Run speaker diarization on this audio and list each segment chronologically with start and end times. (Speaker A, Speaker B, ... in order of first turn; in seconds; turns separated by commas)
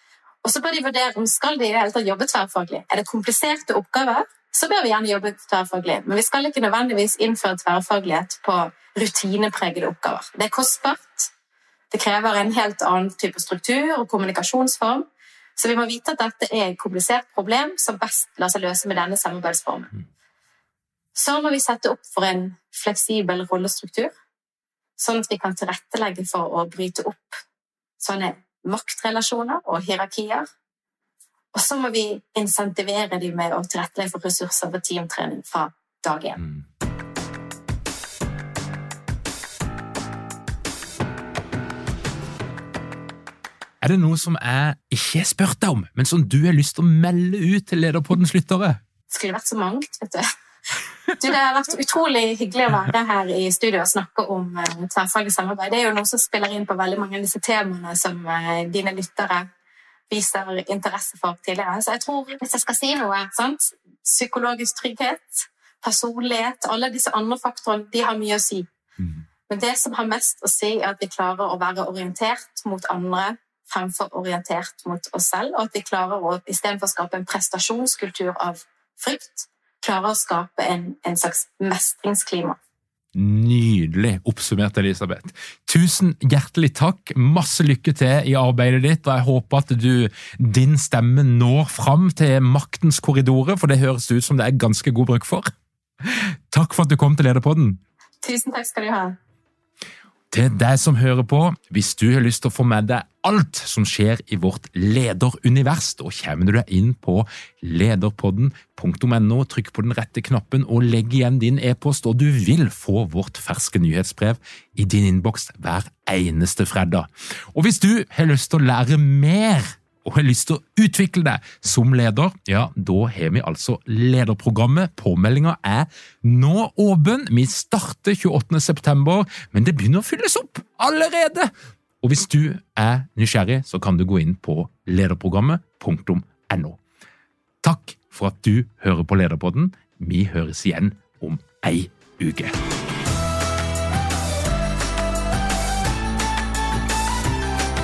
Speaker A: 0.4-11.3, Speaker A: 11.9-19.9, Speaker A: 21.2-24.1, Speaker A: 25.0-27.4, Speaker A: 28.0-30.5, Speaker A: 31.5-36.4, Speaker B: 43.8-48.8, Speaker A: 49.1-50.2, Speaker A: 51.1-59.5, Speaker A: 60.1-68.7, Speaker A: 69.5-82.6, Speaker B: 83.1-95.5, Speaker B: 96.0-97.8, Speaker A: 98.2-99.2, Speaker B: 100.3-131.5, Speaker B: 132.0-136.8, Speaker B: 137.6-142.6